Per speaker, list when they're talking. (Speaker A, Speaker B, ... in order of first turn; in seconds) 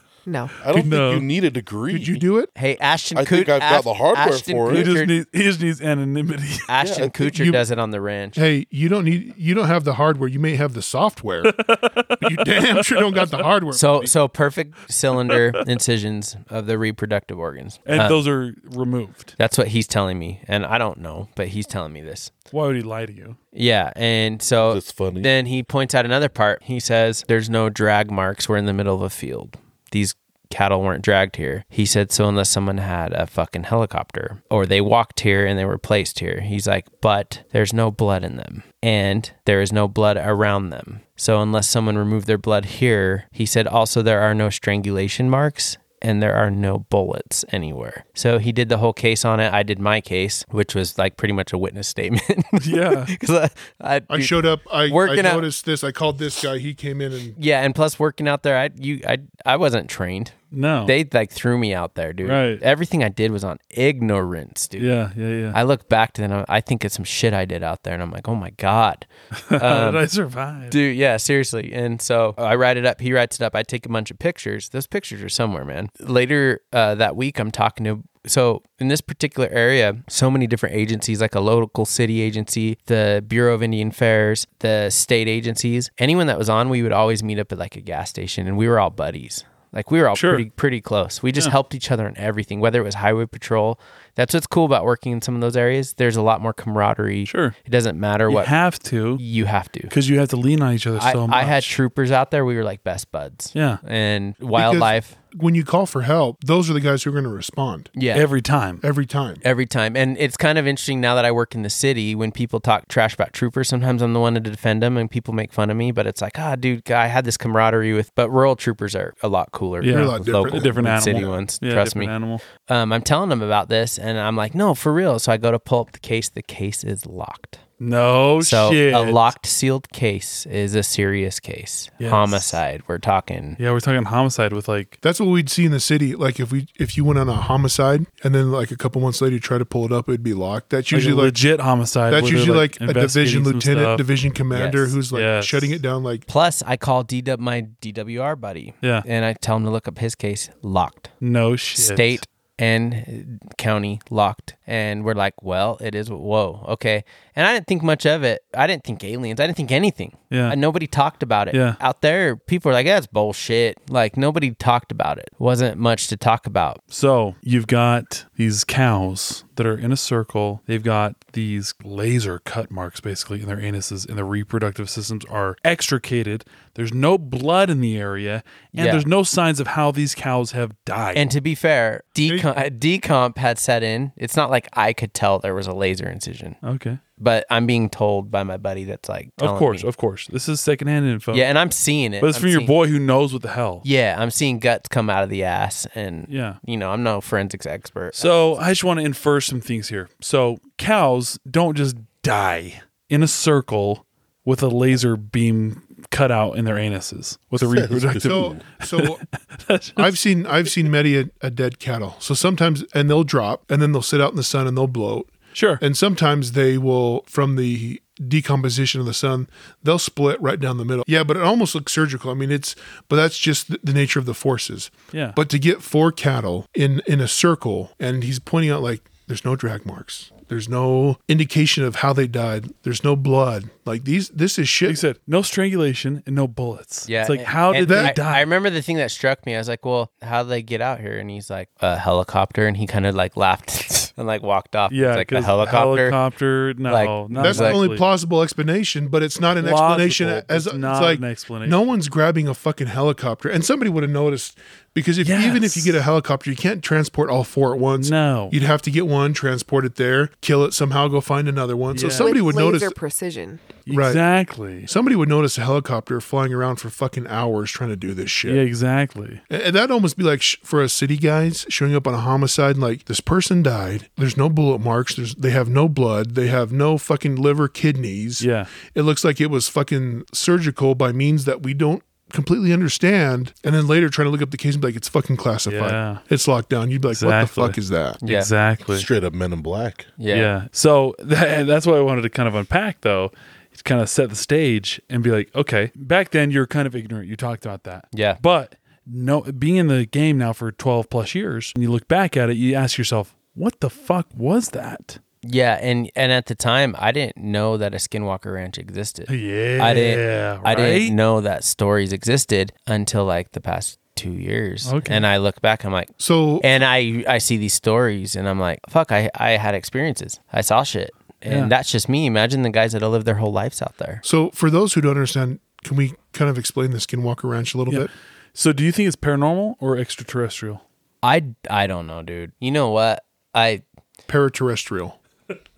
Speaker A: 0.2-0.6, 262.2-263.8
Speaker B: 0.6-2.2, 3.1-4.9, 6.8-7.2, 24.6-25.3, 207.6-208.6, 288.9-290.1
Speaker C: 0.7-1.3, 4.7-6.7, 11.7-13.4, 17.9-19.3, 22.5-23.4, 52.6-53.1, 60.5-60.9, 62.2-62.6, 64.8-65.6, 69.3-70.8, 90.1-90.4, 97.2-97.5, 98.3-99.2, 99.9-101.7, 103.5-103.8, 108.1-108.8, 119.8-122.4, 127.8-129.2, 132.0-132.6, 133.6-135.0, 140.9-144.0, 145.1-145.8, 151.2-152.2, 160.3-160.6, 161.5-161.8, 166.9-181.2, 186.6-187.0, 189.4-191.4, 192.2-193.8, 196.3-196.6, 198.1-210.2, 215.5-215.8, 225.1-225.4, 234.8-238.4, 244.9-248.0, 249.6-251.8, 255.2-256.0, 258.0-258.6, 261.9-262.3, 263.8-264.9, 268.4-269.4, 278.4-278.7, 285.6-286.2, 287.1-289.1, 290.3-305.2, 309.3-311.1, 314.8-315.2, 321.5-321.7, 327.9-330.8
Speaker D: 1.9-2.5, 7.2-7.6, 8.3-14.1, 54.1-57.4, 104.5-107.9, 108.8-109.4, 119.9-121.3, 135.0-141.4, 142.1-146.2, 182.2-182.5, 208.0-209.2, 210.0-235.0, 237.9-238.1, 247.3-263.0, 263.9-264.2, 264.9-268.6, 269.5-288.2, 316.2-316.6, 324.2-328.1, 334.3-335.2
Speaker E: 2.5-5.1, 6.7-8.4, 13.7-18.2, 19.4-22.3, 23.5-55.5, 57.4-64.9, 65.5-70.0, 70.7-98.5, 99.2-99.9, 101.0-105.2, 107.9-108.2, 109.4-127.6, 128.4-133.6, 144.5-145.0, 146.3-151.1, 151.7-166.8, 178.7-179.0, 181.1-186.6, 187.2-189.9, 191.3-192.7, 193.8-198.5, 237.1-246.2, 246.9-247.8, 288.2-288.5, 290.2-290.5, 298.1-298.4, 305.4-324.2, 331.2-333.8